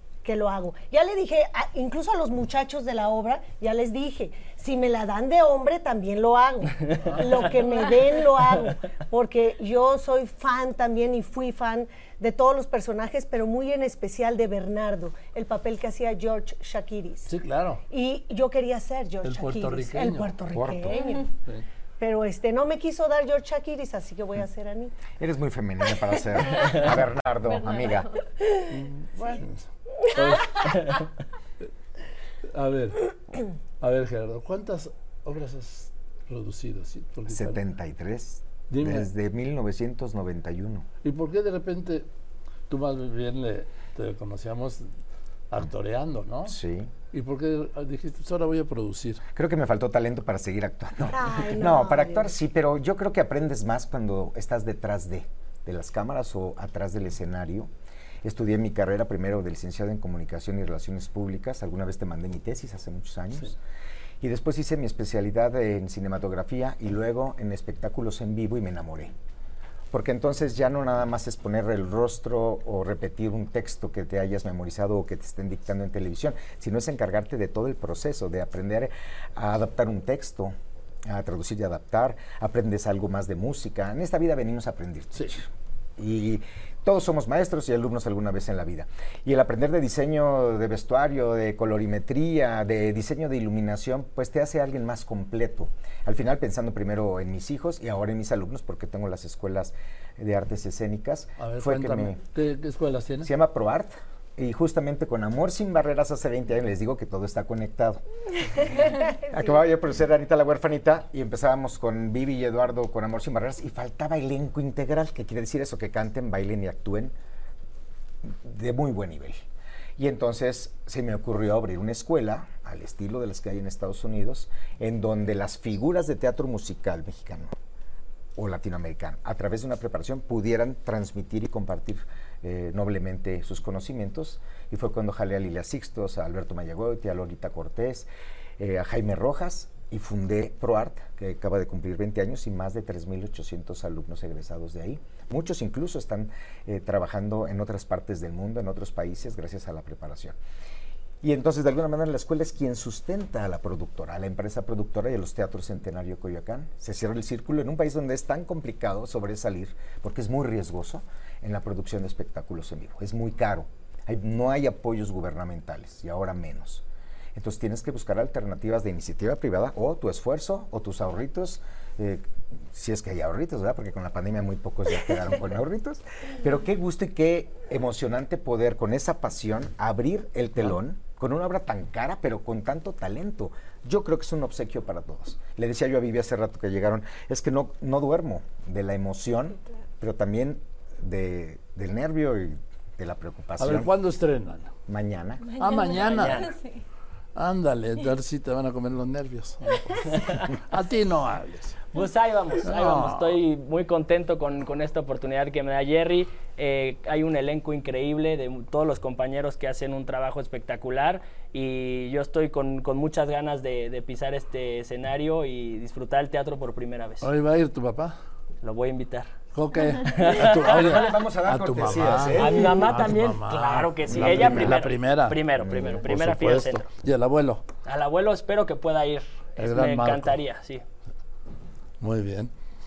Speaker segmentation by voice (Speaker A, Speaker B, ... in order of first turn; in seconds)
Speaker A: 0.2-17.3, 17.9-21.3, 22.0-25.0, 51.1-52.3
Speaker B: 17.2-17.8, 19.2-20.4, 28.7-30.7, 32.4-33.1, 33.8-37.6, 38.7-39.1, 41.0-42.1, 42.7-44.9, 45.5-46.6, 47.1-49.2, 101.4-103.3, 193.6-194.7, 195.6-196.5, 197.3-201.8, 202.6-203.4, 217.2-218.2, 219.5-225.4, 226.0-227.6, 229.6-230.4, 232.0-232.5
Speaker C: 20.5-21.0, 25.2-28.1, 37.3-40.9, 46.5-46.9, 49.3-57.7, 58.2-63.6, 64.2-69.1, 69.9-80.5, 81.1-102.2, 103.2-108.0, 108.6-117.1, 118.2-119.4, 120.0-127.5, 128.4-138.1, 138.6-150.3, 151.2-193.9, 194.9-195.5, 220.6-222.8, 224.1-224.8, 225.6-226.1
Speaker D: 27.5-28.2, 195.5-196.8
Speaker E: 196.0-196.5, 200.1-200.4, 201.9-217.3, 218.6-219.3, 220.1-221.1, 222.3-226.9, 227.8-230.8